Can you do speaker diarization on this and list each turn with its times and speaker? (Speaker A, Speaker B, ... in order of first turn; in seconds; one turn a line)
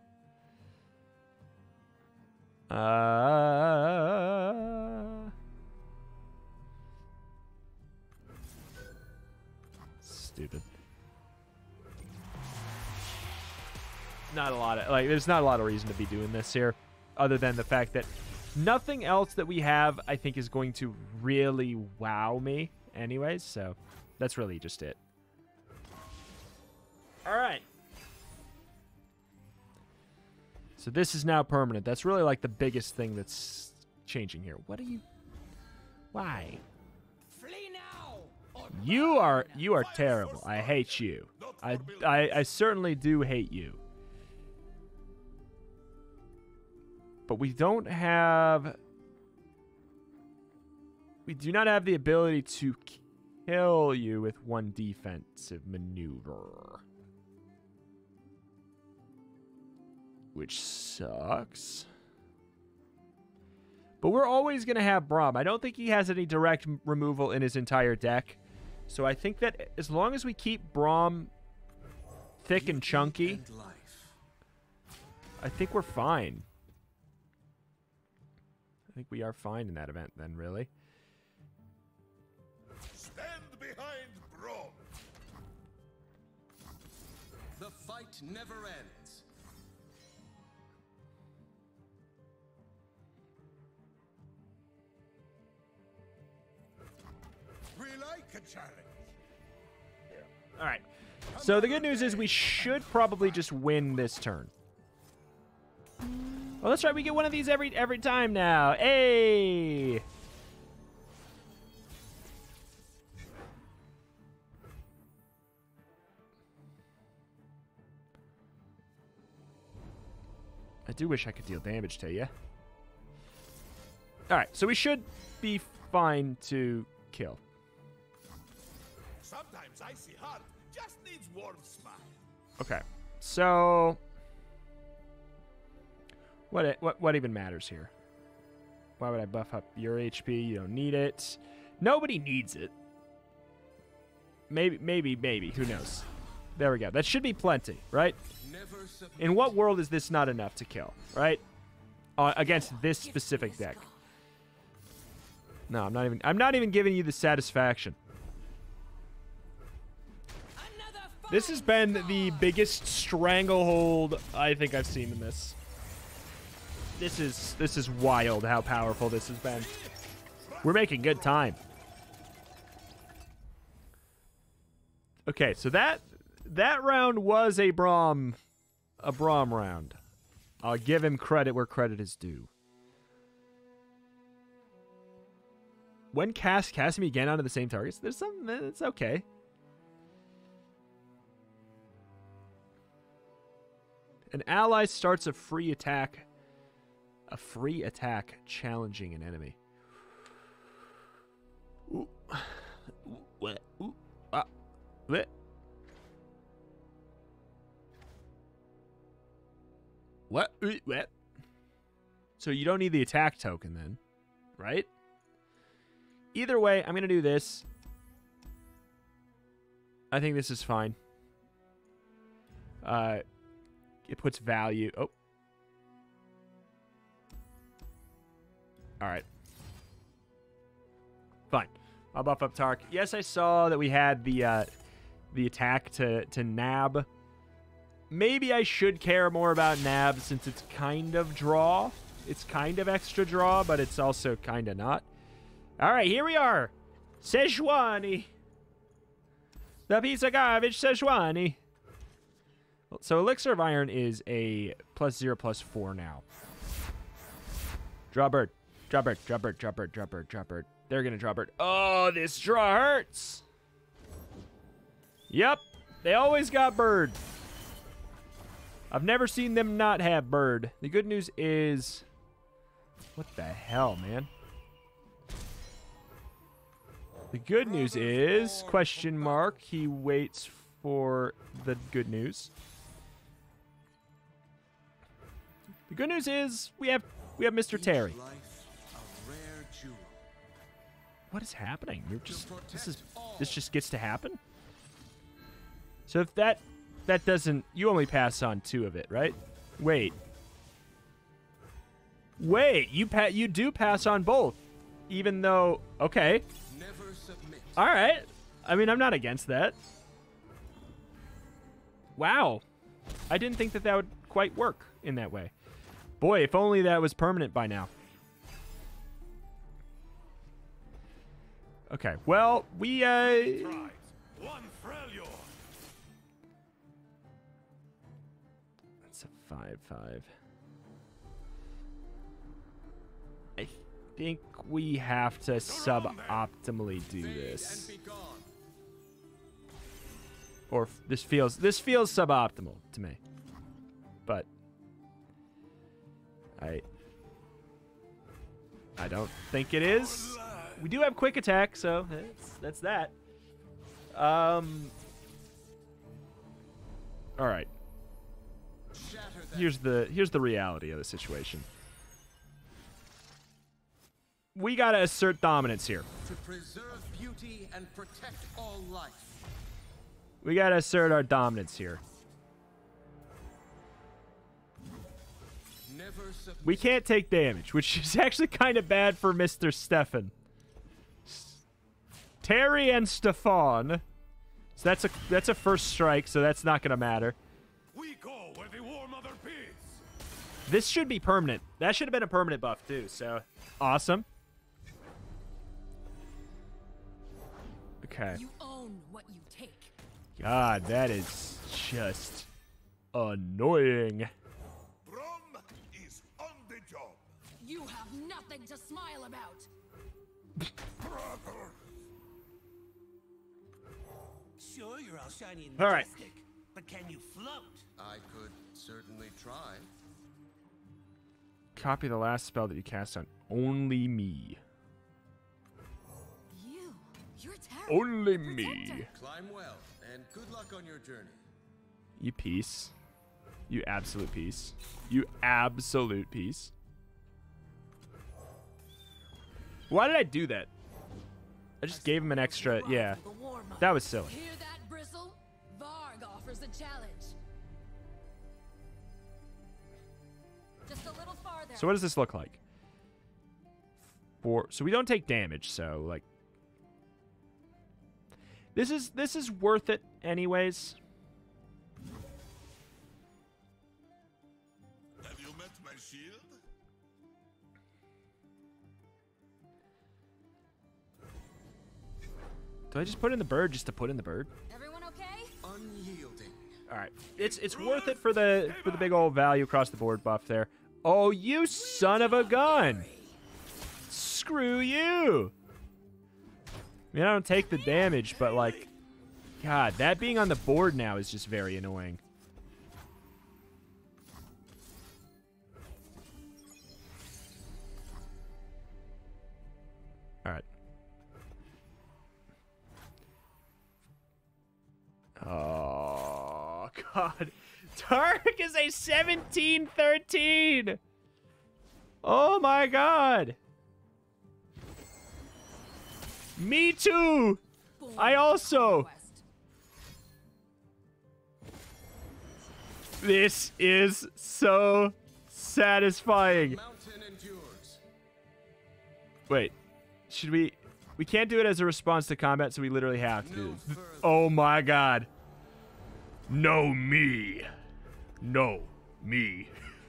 Speaker A: 2.7-5.3
Speaker A: 10.0-10.7
Speaker A: 14.3-25.0
Speaker A: 27.2-27.6
Speaker A: 30.8-35.0
Speaker A: 36.1-36.6
Speaker B: 37.3-38.7
Speaker C: 37.4-39.4
Speaker A: 38.7-43.8
Speaker D: 39.6-42.5
Speaker A: 47.3-48.8
Speaker A: 51.2-56.8
Speaker A: 60.3-61.9
Speaker A: 64.0-71.3
Speaker A: 72.4-73.4
Speaker E: 72.5-74.2
Speaker A: 75.4-76.5
Speaker A: 78.9-80.7
Speaker D: 82.9-84.8
Speaker E: 87.5-89.2
Speaker D: 97.8-98.9
Speaker A: 100.1-104.5
Speaker D: 101.4-102.2
Speaker A: 106.6-110.0
Speaker A: 120.8-122.3
Speaker A: 124.3-127.4
Speaker D: 129.2-132.2
Speaker A: 132.6-134.0
Speaker A: 136.5-137.9
Speaker A: 139.0-142.7
Speaker A: 144.5-148.2
Speaker E: 148.4-149.6
Speaker A: 149.2-151.4
Speaker A: 152.2-153.8
Speaker C: 152.4-154.0
Speaker A: 155.7-158.0
Speaker C: 160.6-162.6
Speaker A: 161.3-165.6
Speaker A: 167.0-169.7
Speaker D: 169.5-171.4
Speaker A: 170.6-171.6
Speaker A: 175.2-178.4
Speaker A: 179.0-180.0
Speaker A: 180.6-182.5
Speaker A: 186.1-189.2
Speaker A: 194.3-196.3
Speaker A: 197.3-199.6
Speaker A: 201.9-204.5
Speaker A: 210.3-211.1
Speaker A: 212.4-214.0
Speaker A: 214.6-214.9
Speaker A: 216.3-217.6
Speaker A: 220.1-220.9
Speaker A: 222.8-223.2
Speaker A: 224.1-225.1
Speaker A: 229.0-229.2
Speaker A: 231.5-234.7
Speaker A: 235.3-237.1
Speaker A: 238.1-245.1
Speaker A: 245.8-248.3
Speaker A: 249.9-251.6
Speaker A: 252.9-256.2
Speaker A: 258.1-263.4
Speaker A: 265.3-267.2
Speaker A: 268.9-272.0
Speaker A: 273.1-274.3
Speaker A: 277.3-282.5
Speaker D: 277.6-279.6
Speaker A: 285.9-288.2
Speaker E: 287.7-290.2
Speaker A: 291.3-294.4
Speaker E: 292.2-293.7
Speaker A: 296.1-300.2
Speaker A: 302.4-306.4
Speaker E: 306.7-307.9
Speaker A: 307.8-309.8
Speaker A: 312.2-312.6
Speaker A: 313.3-315.5
Speaker A: 316.2-317.9
Speaker A: 321.9-323.9
Speaker D: 323.2-325.5
Speaker A: 329.1-330.3
Speaker A: 333.6-337.9
Speaker D: 335.6-336.5
Speaker E: 337.1-338.5
Speaker A: 340.7-343.2
Speaker A: 346.6-346.8
Speaker A: 349.0-353.1
Speaker D: 349.9-350.8
Speaker A: 354.1-354.9
Speaker A: 357.4-357.7
Speaker E: 358.9-359.8
Speaker A: 359.5-361.7
Speaker A: 364.5-366.1
Speaker E: 366.2-369.4
Speaker A: 370.4-372.0
Speaker E: 375.8-376.9
Speaker A: 376.6-380.3
Speaker A: 381.2-381.6
Speaker A: 382.4-384.0
Speaker A: 384.8-387.4
Speaker D: 387.9-390.0
Speaker A: 390.7-394.2
Speaker A: 398.0-398.4
Speaker C: 398.3-399.9
Speaker A: 400.4-402.5
Speaker A: 403.1-404.3
Speaker D: 405.0-407.3
Speaker C: 407.6-409.7
Speaker D: 411.0-411.8
Speaker B: 414.6-417.8
Speaker A: 415.8-416.2
Speaker E: 417.9-419.9
Speaker A: 421.8-424.6
Speaker C: 426.5-429.1
Speaker A: 427.9-429.1
Speaker E: 429.1-431.4
Speaker A: 432.2-432.9
Speaker A: 433.7-436.7
Speaker A: 439.9-440.7
Speaker A: 441.8-443.2
Speaker C: 441.9-447.4
Speaker A: 443.8-444.4
Speaker C: 450.9-452.0
Speaker A: 451.7-452.6
Speaker A: 454.4-456.2
Speaker A: 458.7-461.0
Speaker D: 465.2-466.6
Speaker A: 472.9-474.5
Speaker C: 474.7-475.5
Speaker E: 475.6-476.7
Speaker A: 476.9-483.1
Speaker D: 477.4-479.1
Speaker C: 481.7-483.4
Speaker A: 484.1-485.5
Speaker A: 487.1-488.9
Speaker C: 487.8-488.9
Speaker A: 489.6-492.2
Speaker A: 505.4-511.0
Speaker A: 512.2-513.6
Speaker A: 516.6-517.6
Speaker C: 518.0-519.4
Speaker A: 518.1-519.1
Speaker A: 523.2-526.8
Speaker E: 526.4-528.0
Speaker A: 529.5-529.7
Speaker A: 530.3-535.3
Speaker E: 533.4-534.5
Speaker A: 536.5-537.7
Speaker A: 538.4-539.7